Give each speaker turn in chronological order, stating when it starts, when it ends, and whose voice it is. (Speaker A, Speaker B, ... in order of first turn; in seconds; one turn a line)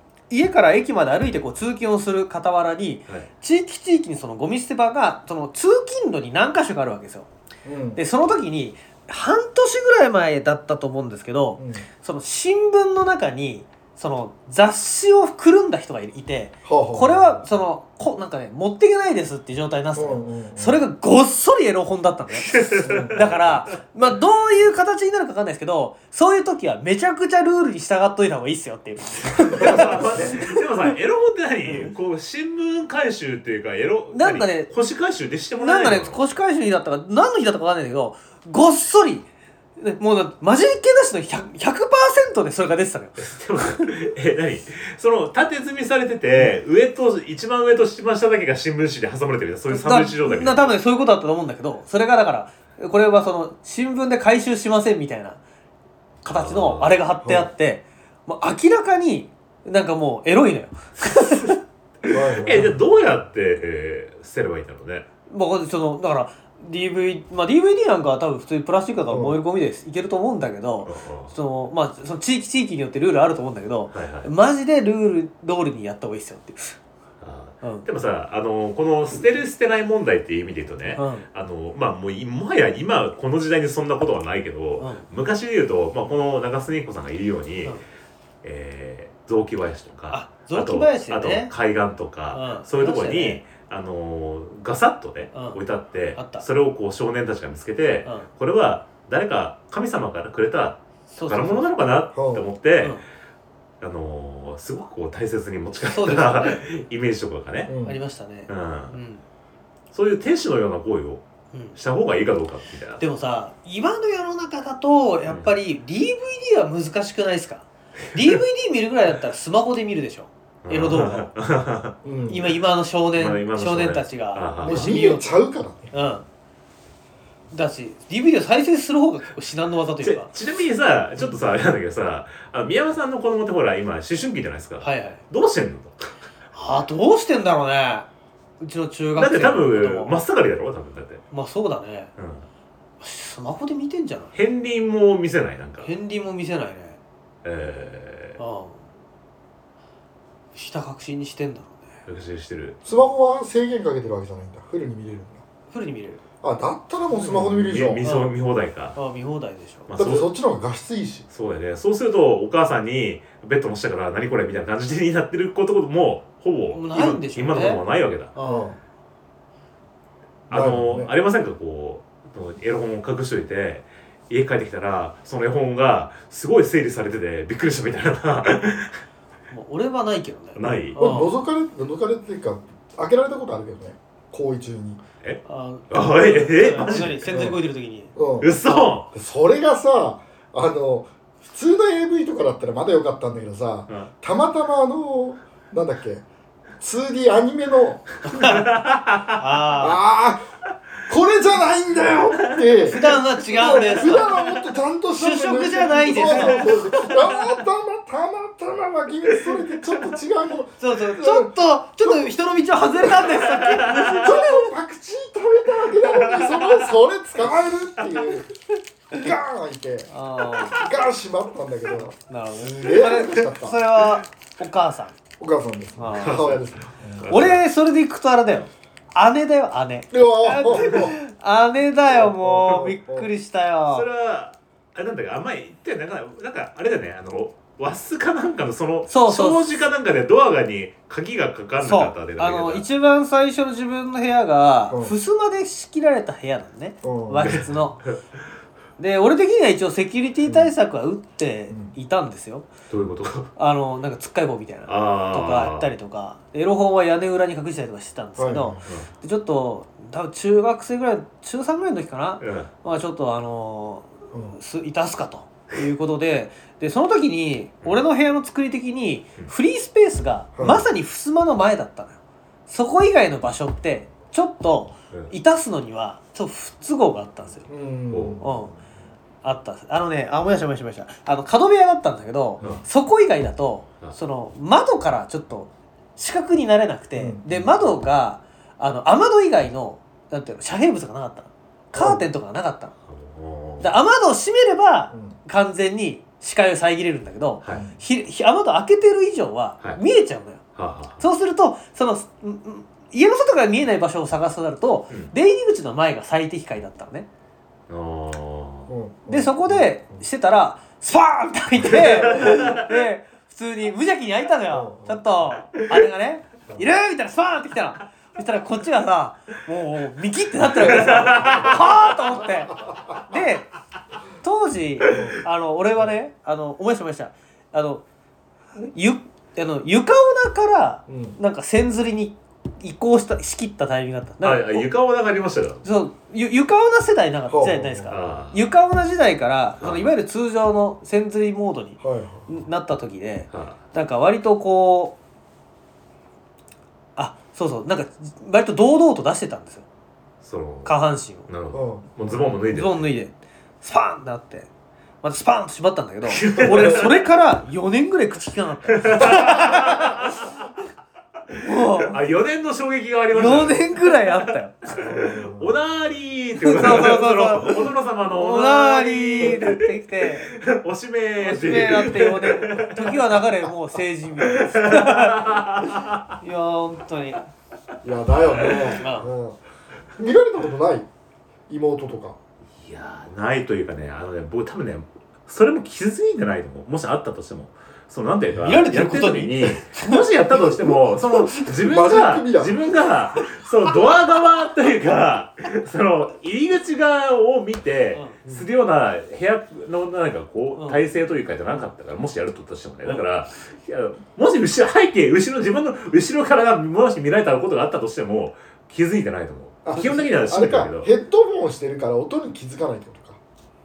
Speaker A: 0.3-7.3
Speaker B: 7.7-8.0
Speaker A: 8.0-30.6
Speaker B: 11.6-11.8
Speaker B: 16.6-17.4
Speaker B: 19.9-20.8
Speaker C: 22.4-23.6
Speaker B: 22.8-23.2
Speaker B: 29.5-30.4
Speaker C: 29.5-36.2
Speaker A: 34.1-34.7
Speaker A: 35.6-39.3
Speaker A: 39.8-43.3
Speaker C: 43.2-50.8
Speaker A: 49.7-55.4
Speaker A: 56.2-61.6
Speaker C: 56.3-57.0
Speaker B: 57.2-57.5
Speaker C: 61.2-61.5
Speaker B: 62.1-62.8
Speaker C: 62.4-65.1
Speaker A: 65.3-76.8
Speaker B: 69.1-69.4
Speaker C: 70.9-71.3
Speaker C: 73.9-74.3
Speaker C: 77.2-87.8
Speaker A: 77.6-77.9
Speaker A: 80.9-81.3
Speaker A: 84.8-85.0
Speaker C: 88.4-103.0
Speaker A: 90.1-91.5
Speaker A: 92.3-93.4
Speaker A: 95.3-95.6
Speaker A: 96.2-96.5
Speaker A: 101.1-101.7
Speaker B: 102.1-102.5
Speaker C: 103.8-107.7
Speaker A: 105.9-106.6
Speaker B: 107.7-108.0
Speaker A: 107.8-109.2
Speaker C: 108.5-109.0
Speaker C: 109.9-111.2
Speaker A: 111.5-111.8
Speaker C: 111.8-113.0
Speaker A: 113.0-121.3
Speaker C: 115.3-115.5
Speaker C: 120.6-122.0
Speaker B: 122.0-122.5
Speaker A: 122.3-125.3
Speaker C: 123.1-124.9
Speaker B: 124.6-125.9
Speaker A: 125.9-126.2
Speaker A: 127.5-130.3
Speaker C: 130.0-136.2
Speaker A: 134.8-135.2
Speaker A: 136.5-138.1
Speaker A: 138.6-140.2
Speaker C: 139.2-141.2
Speaker A: 141.3-142.1
Speaker C: 142.2-142.5
Speaker A: 143.0-144.3
Speaker C: 144.3-145.9
Speaker A: 145.8-147.0
Speaker C: 147.4-148.4
Speaker A: 148.4-148.8
Speaker A: 150.6-151.9
Speaker C: 152.1-152.8
Speaker B: 152.8-155.4
Speaker A: 155.7-156.2
Speaker B: 156.4-158.0
Speaker C: 157.3-159.0
Speaker A: 158.0-158.3
Speaker A: 158.9-159.9
Speaker C: 159.9-160.3
Speaker B: 160.0-161.3
Speaker C: 161.3-168.3
Speaker A: 166.7-167.8
Speaker A: 168.3-168.7
Speaker B: 168.4-168.8
Speaker C: 170.5-179.0
Speaker B: 170.5-171.1
Speaker A: 179.5-181.3
Speaker C: 180.6-181.0
Speaker B: 181.0-185.0
Speaker C: 185.2-187.3
Speaker A: 185.4-188.1
Speaker B: 187.3-187.6
Speaker B: 188.2-188.6
Speaker C: 188.4-189.1
Speaker B: 189.1-196.2
Speaker B: 196.8-198.2
Speaker A: 198.2-198.7
Speaker C: 198.3-199.4
Speaker A: 199.4-200.0
Speaker B: 199.8-200.4
Speaker B: 201.1-203.0
Speaker C: 202.3-202.6
Speaker A: 202.8-204.5
Speaker B: 203.5-212.2
Speaker C: 203.7-204.4
Speaker A: 205.1-206.8
Speaker C: 206.2-207.2
Speaker C: 209.3-209.6
Speaker A: 210.8-214.5
Speaker C: 213.2-214.3
Speaker B: 213.9-218.5
Speaker C: 216.0-216.9
Speaker B: 219.1-223.8
Speaker A: 220.1-220.8
Speaker A: 222.3-225.2
Speaker B: 225.4-227.2
Speaker A: 226.0-226.6
Speaker C: 226.2-227.6
Speaker A: 227.3-234.1
Speaker B: 230.1-231.2
Speaker C: 230.8-231.1
Speaker B: 232.1-233.3
Speaker C: 233.9-242.8
Speaker A: 239.1-239.7
Speaker A: 241.8-248.0
Speaker B: 244.9-245.2
Speaker B: 247.0-247.7
Speaker C: 247.4-248.1
Speaker A: 249.0-252.7
Speaker B: 250.5-250.7
Speaker C: 252.9-253.5
Speaker A: 253.6-277.7
Speaker C: 254.9-255.9
Speaker B: 258.4-258.9
Speaker C: 262.4-262.7
Speaker B: 264.3-264.6
Speaker B: 270.6-270.9
Speaker B: 277.7-278.6
Speaker C: 278.1-278.4
Speaker A: 278.4-278.8
Speaker A: 279.4-292.9
Speaker B: 287.2-287.7
Speaker B: 291.9-292.2
Speaker C: 293.1-294.0
Speaker A: 293.8-300.6
Speaker B: 297.7-298.0
Speaker C: 300.8-301.2
Speaker A: 301.2-307.3
Speaker C: 307.9-308.9
Speaker B: 308.9-310.2
Speaker A: 309.3-323.7
Speaker C: 312.3-312.8
Speaker B: 314.7-315.2
Speaker C: 320.9-321.9
Speaker A: 324.4-328.1
Speaker B: 325.1-325.4
Speaker A: 328.8-334.9
Speaker B: 331.1-331.4
Speaker C: 334.4-335.8
Speaker A: 335.8-345.2
Speaker B: 337.5-338.1
Speaker C: 338.1-338.6
Speaker C: 339.8-340.1
Speaker B: 342.0-342.5
Speaker C: 343.5-343.8
Speaker A: 347.2-349.9
Speaker C: 350.4-353.1
Speaker A: 350.9-351.5
Speaker B: 351.7-352.4
Speaker A: 352.7-354.7
Speaker A: 355.2-360.4
Speaker C: 356.3-357.2
Speaker C: 358.9-360.7
Speaker C: 361.5-373.5
Speaker A: 361.6-362.2
Speaker A: 363.3-364.8
Speaker B: 364.9-365.8
Speaker A: 366.6-370.6
Speaker A: 371.4-377.4
Speaker C: 374.4-376.4
Speaker B: 378.0-379.6
Speaker A: 379.0-379.3
Speaker B: 380.2-381.1
Speaker B: 381.7-382.4
Speaker C: 382.8-411.1
Speaker A: 388.6-391.7
Speaker B: 391.8-392.8
Speaker A: 398.1-398.4
Speaker B: 409.9-413.4